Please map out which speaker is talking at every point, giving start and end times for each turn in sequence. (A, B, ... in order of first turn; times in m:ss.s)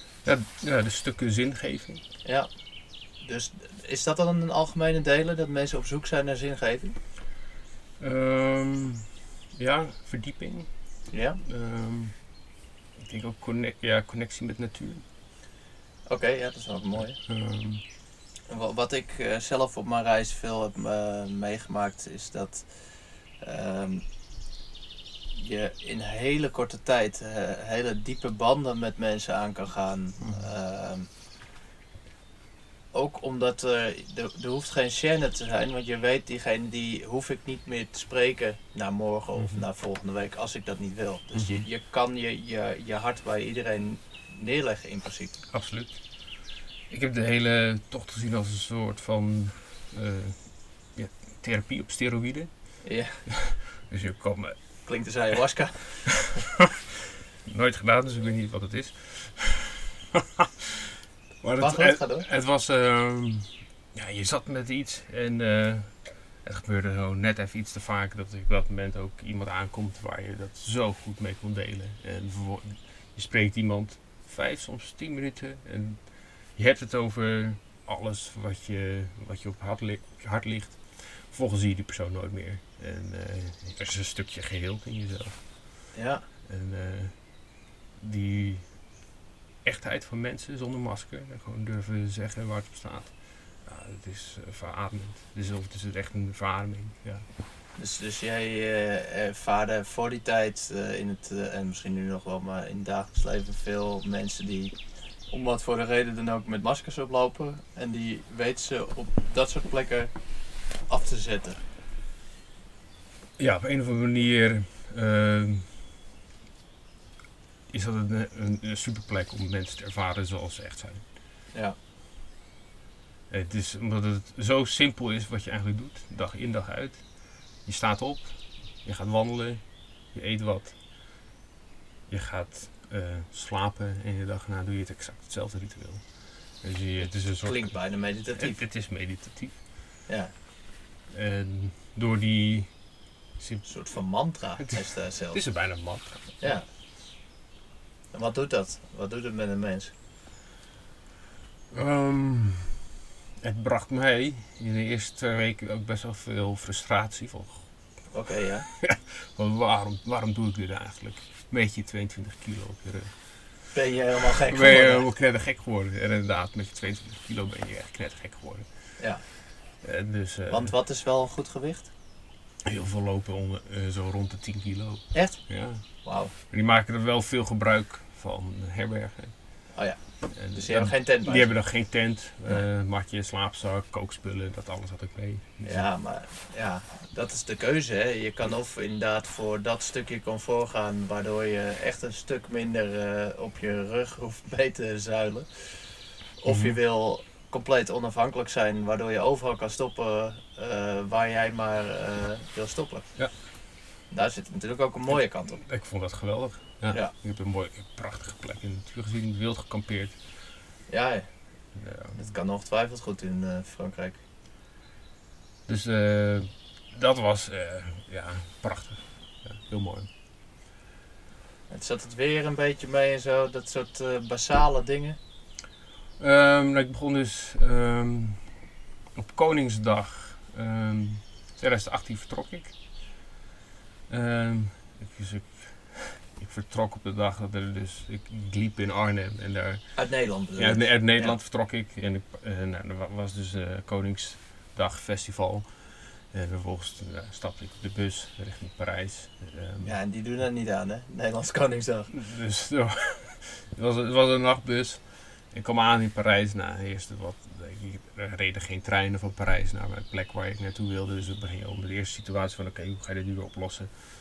0:00.2-0:02.0 A
0:02.2-0:07.0 B
0:08.0-0:15.0 A
0:11.1-0:11.4 B
0:16.1-0:17.2 B
0:17.0-0:17.8 A
0:18.5-0:24.0 B
0:25.4-0:31.1 B
0:30.2-0:30.5 A
0:32.9-0:45.4 B
0:39.4-0:39.6 A
0:41.3-0:41.7 A
0:45.5-0:54.9 A
0:52.8-0:53.2 B
0:54.8-0:56.4 B
0:57.4-1:00.5 A
1:01.4-1:25.9 A
1:01.6-1:02.2 B
1:25.9-1:26.2 B
1:26.4-1:29.0 A
1:29.6-1:37.2 A
1:37.8-1:51.6 B
1:53.4-1:55.8 A
1:57.7-2:01.1 A
2:03.3-2:10.8 A
2:12.1-2:19.6 A
2:17.0-2:18.6 B
2:20.1-2:20.3 B
2:21.1-2:26.6 A
2:23.6-2:26.7 B
2:28.1-2:29.9 B
2:31.7-2:32.8 A
2:33.4-2:38.1 A
2:38.1-2:38.7 B
2:38.8-2:43.7 A
2:43.7-2:45.1 B
2:44.5-2:50.8 A
2:49.0-2:49.2 B
2:50.5-2:51.9 B
2:52.6-3:05.9 A
2:55.1-2:56.3 B
2:59.7-3:02.6 B
3:05.6-3:23.4 B
3:16.5-3:16.8 A
3:24.1-3:25.6 B
3:25.1-3:30.3 A
3:26.9-3:27.1 B
3:30.9-3:34.2 B
3:31.7-3:32.2 A
3:35.6-3:40.1 A
3:41.7-3:45.2 B
3:46.2-3:52.8 A
3:54.1-4:10.0 A
4:00.0-4:01.4 B
4:09.8-4:12.1 B
4:12.1-4:24.0 A